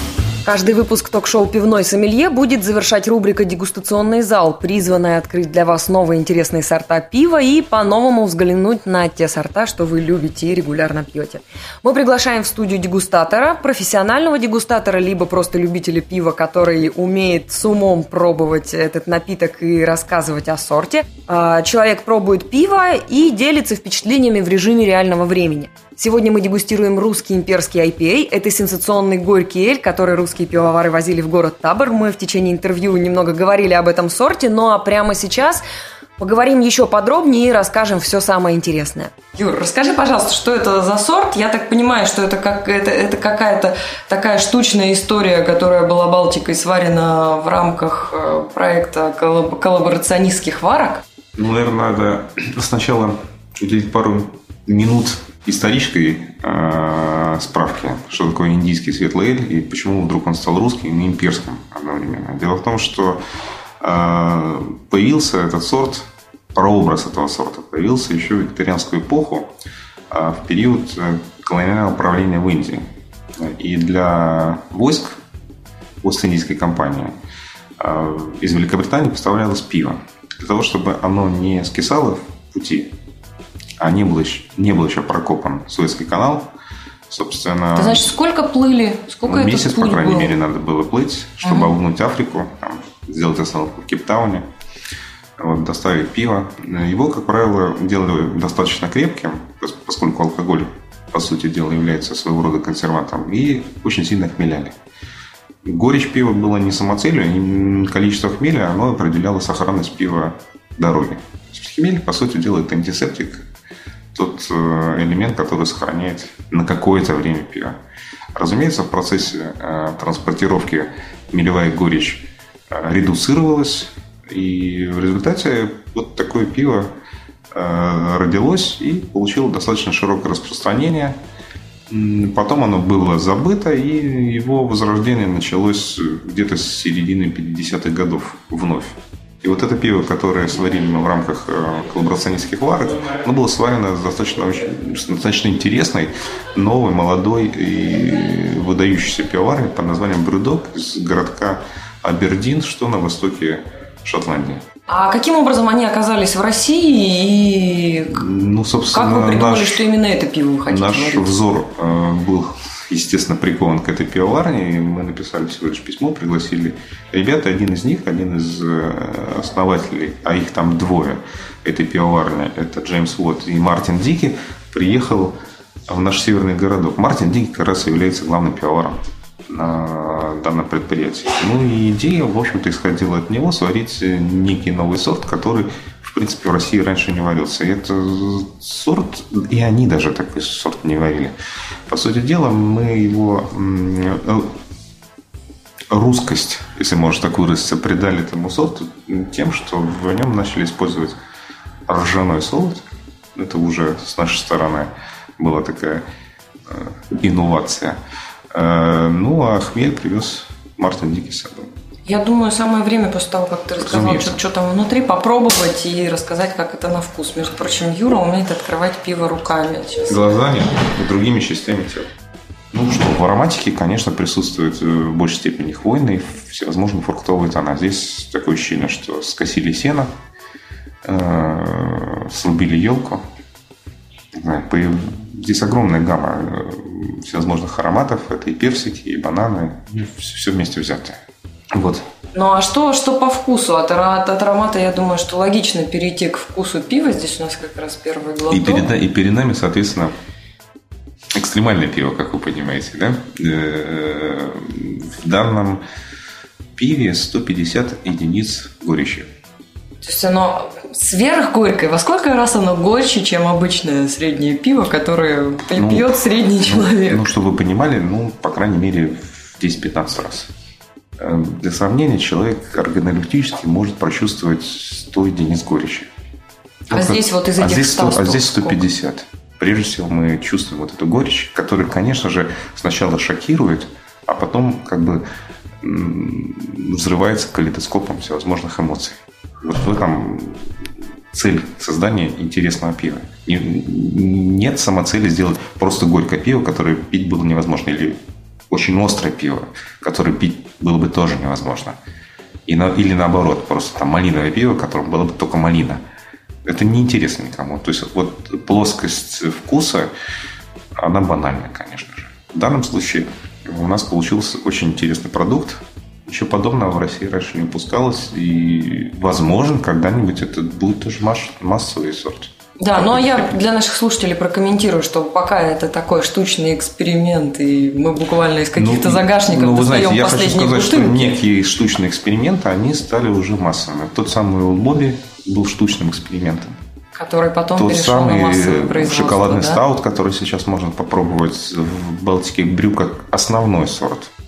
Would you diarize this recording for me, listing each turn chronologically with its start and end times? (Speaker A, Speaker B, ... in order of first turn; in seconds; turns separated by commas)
Speaker A: 0.4-35.6, Speaker A: 36.2-51.0, Speaker B: 51.4-63.2, Speaker B: 63.8-69.5, Speaker B: 70.1-75.2, Speaker B: 76.0-77.1, Speaker B: 77.8-82.9, Speaker B: 83.8-86.5, Speaker B: 87.1-88.1, Speaker A: 87.8-90.4, Speaker B: 89.2-94.5, Speaker A: 91.4-91.7, Speaker B: 95.4-104.8, Speaker B: 105.6-113.5, Speaker B: 114.1-117.8, Speaker B: 118.4-126.9, Speaker B: 127.5-131.2, Speaker B: 131.9-154.6, Speaker A: 154.9-158.2, Speaker B: 158.1-159.9, Speaker A: 158.9-161.4, Speaker B: 160.7-175.4, Speaker B: 175.9-191.3, Speaker B: 191.9-194.5, Speaker B: 195.9-201.2, Speaker B: 201.9-206.0, Speaker B: 206.7-208.0, Speaker B: 208.5-211.7, Speaker A: 212.1-220.2, Speaker B: 213.8-214.4, Speaker B: 220.1-222.1, Speaker B: 222.7-230.1, Speaker B: 231.0-233.2, Speaker B: 234.3-241.2, Speaker B: 241.7-242.1, Speaker A: 242.3-248.9, Speaker B: 248.5-250.1, Speaker B: 251.3-255.8, Speaker B: 256.8-259.3, Speaker A: 260.0-267.3, Speaker B: 265.7-270.5, Speaker B: 271.2-276.1, Speaker B: 276.9-285.2, Speaker A: 276.9-278.9, Speaker B: 285.8-290.7, Speaker B: 291.3-298.2, Speaker B: 298.7-302.0, Speaker B: 302.6-306.0, Speaker B: 306.6-310.1, Speaker B: 311.0-323.6, Speaker A: 322.8-331.4, Speaker B: 328.8-336.8, Speaker A: 337.1-339.8, Speaker B: 337.8-344.3